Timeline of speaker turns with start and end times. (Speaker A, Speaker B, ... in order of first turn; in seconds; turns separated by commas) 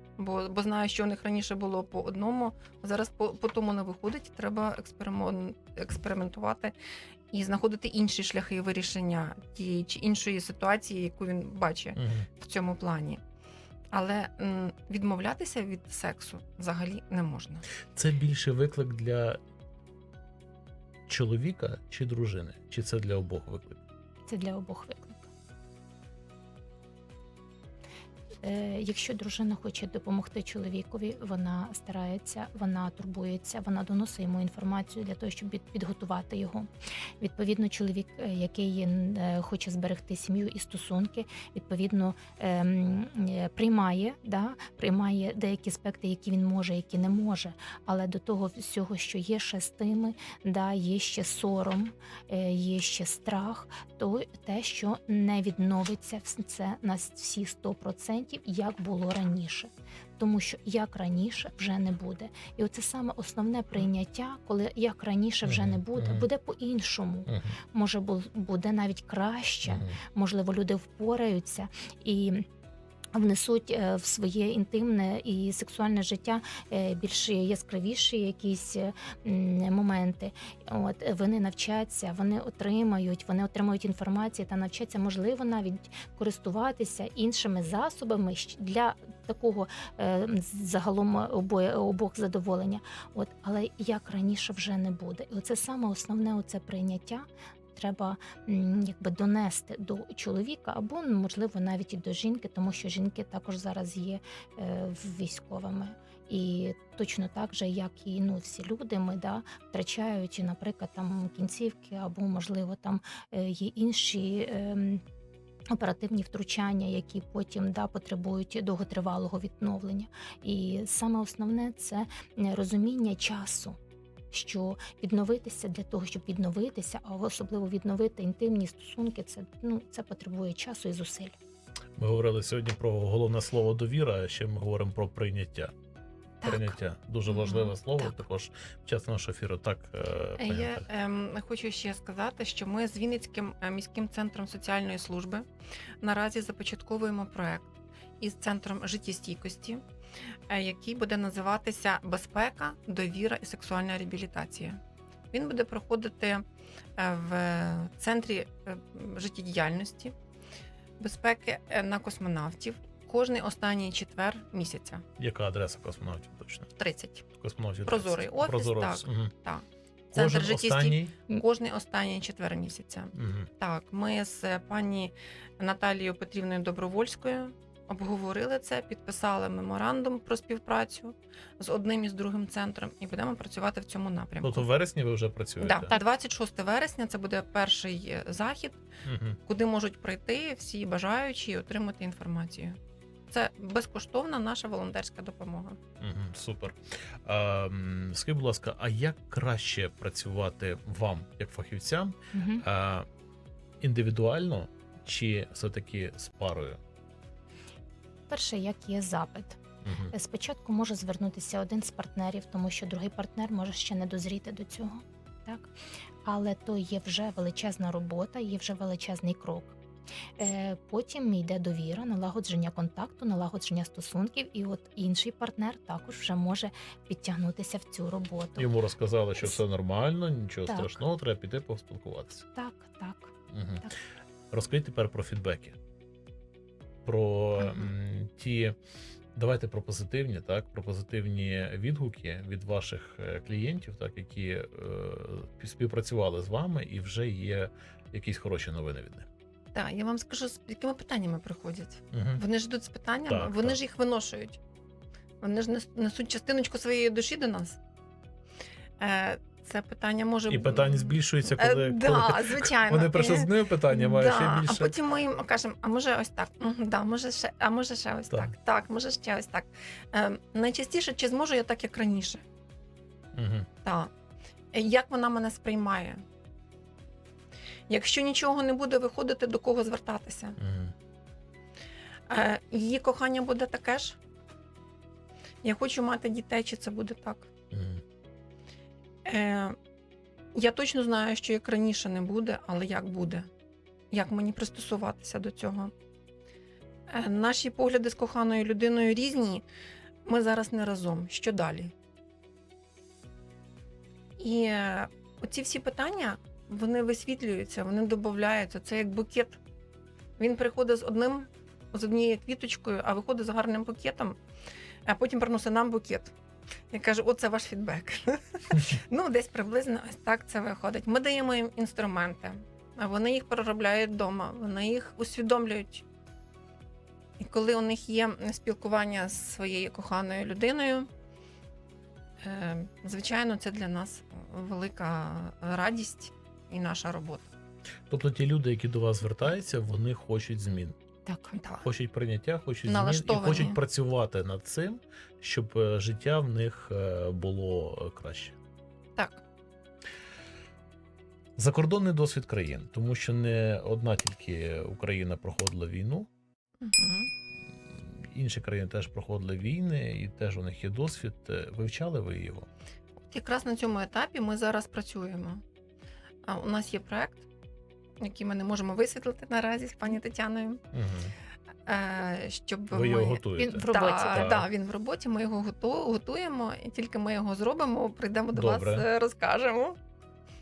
Speaker A: 0.2-6.7, Speaker A: 7.3-13.2, Speaker B: 12.0-12.3, Speaker A: 13.9-17.6, Speaker B: 17.9-19.4, Speaker B: 21.1-23.8, Speaker C: 24.3-25.3, Speaker C: 28.4-72.5, Speaker B: 65.5-66.3, Speaker B: 67.3-67.5, Speaker B: 69.7-70.0, Speaker C: 73.1-115.0, Speaker C: 115.7-123.8, Speaker C: 124.3-131.4, Speaker B: 132.0-135.7, Speaker C: 136.4-136.8, Speaker B: 136.4-140.8, Speaker A: 140.4-145.5, Speaker A: 146.0-149.8, Speaker A: 150.5-154.8, Speaker A: 155.3-156.4, Speaker A: 157.0-160.2, Speaker A: 161.0-165.1, Speaker B: 165.2-166.7, Speaker A: 166.8-167.2, Speaker B: 167.4-169.3, Speaker A: 167.8-184.7, Speaker B: 170.1-171.2, Speaker B: 173.2-173.5, Speaker B: 184.4-185.9, Speaker A: 185.6-188.8, Speaker B: 189.1-189.4, Speaker A: 189.4-192.8, Speaker A: 193.3-195.8, Speaker B: 196.0-203.1, Speaker C: 202.3-202.6, Speaker B: 203.8-206.8, Speaker C: 208.3-209.6, Speaker B: 209.8-210.1, Speaker C: 210.1-215.7, Speaker C: 216.2-219.8, Speaker C: 220.4-228.7, Speaker B: 228.6-232.5, Speaker C: 230.7-231.0, Speaker C: 232.5-233.9, Speaker B: 233.5-233.8, Speaker B: 234.5-235.8, Speaker B: 237.1-238.8, Speaker B: 239.3-249.3, Speaker A: 249.7-254.6, Speaker B: 252.1-252.4, Speaker B: 253.3-253.8, Speaker A: 255.4-257.8, Speaker A: 259.0-272.4, Speaker B: 260.5-264.9, Speaker B: 273.4-273.7, Speaker A: 273.8-274.1, Speaker A: 274.7-276.2, Speaker A: 277.9-280.6, Speaker B: 280.6-280.9, Speaker A: 282.3-284.2, Speaker A: 285.6-287.5, Speaker B: 287.7-288.0, Speaker A: 289.2-289.8, Speaker A: 290.6-293.5, Speaker A: 294.1-295.9, Speaker A: 297.1-299.6, Speaker A: 300.2-301.9, Speaker A: 304.4-309.6, Speaker A: 310.4-314.4, Speaker A: 315.1-316.3, Speaker A: 316.9-326.1, Speaker A: 327.4-331.1, Speaker A: 332.4-337.5, Speaker B: 338.1-341.0, Speaker C: 341.2-341.6, Speaker A: 341.5-341.9, Speaker B: 341.8-348.6, Speaker A: 342.9-343.8, Speaker A: 349.2-349.4, Speaker B: 351.6-356.3, Speaker A: 356.8-357.3, Speaker B: 357.9-362.7, Speaker A: 363.2-365.6, Speaker A: 366.5-367.4, Speaker A: 368.2-370.8, Speaker B: 370.9-371.3, Speaker A: 371.9-380.0, Speaker B: 372.9-374.7, Speaker C: 373.5-374.6, Speaker B: 378.5-379.1